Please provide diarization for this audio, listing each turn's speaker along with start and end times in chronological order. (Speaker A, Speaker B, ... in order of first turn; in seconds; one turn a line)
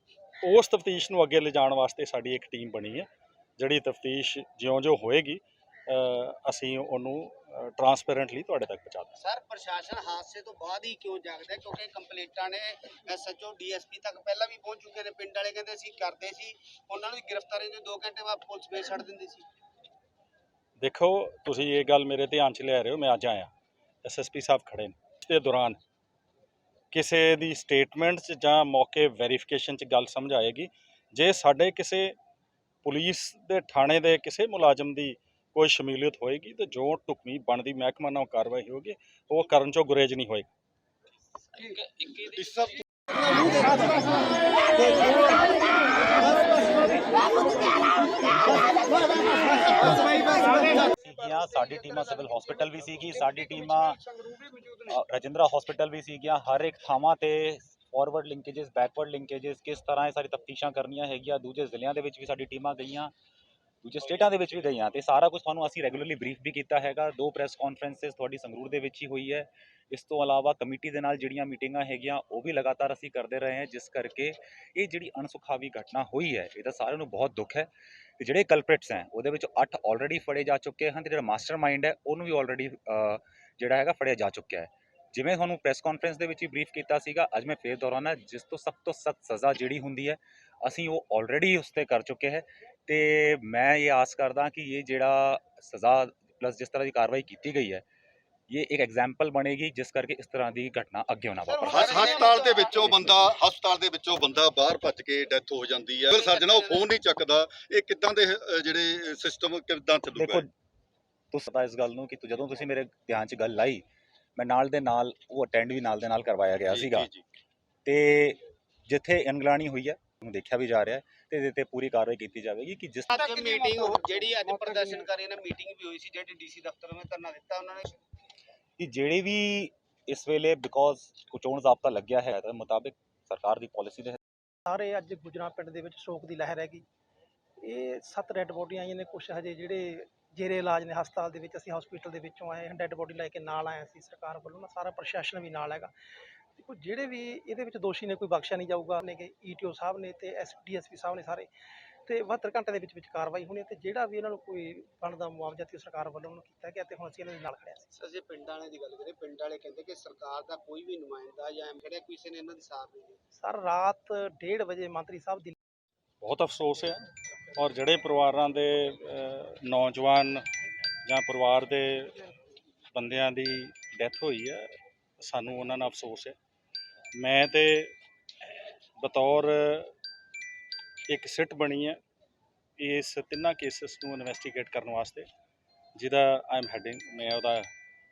Speaker A: 0.4-3.1
Speaker A: 3.6-9.2
Speaker B: 9.2-19.4
Speaker A: 20.8-23.5
Speaker A: 24.0-25.8
Speaker A: 26.9-32.1
Speaker A: 32.8-40.5
Speaker C: 42.3-42.8
Speaker D: 50.2-54.0
Speaker D: 54.8-63.1
Speaker D: 63.8-97.8
Speaker D: 98.5-102.0
Speaker C: 101.7-110.4
Speaker B: 106.1-106.9
Speaker D: 110.1-110.5
Speaker D: 111.3-113.8
Speaker D: 114.4-117.1
Speaker C: 116.7-117.2
Speaker D: 117.8-123.2
Speaker B: 123.1-128.0
Speaker D: 128.8-134.2
Speaker E: 134.7-136.8
Speaker E: 137.6-145.9
Speaker E: 146.5-151.5
Speaker E: 152.1-157.9
Speaker B: 157.9-163.2
Speaker E: 163.3-165.6
Speaker A: 166.2-167.0
Speaker A: 167.6-170.5
Speaker A: 171.0-172.2
Speaker A: 172.9-176.3
Speaker A: 177.2-177.9
Speaker A: 179.0-179.9
Speaker A: 181.1-182.0
Speaker A: 182.8-185.2
Speaker A: 186.0-187.7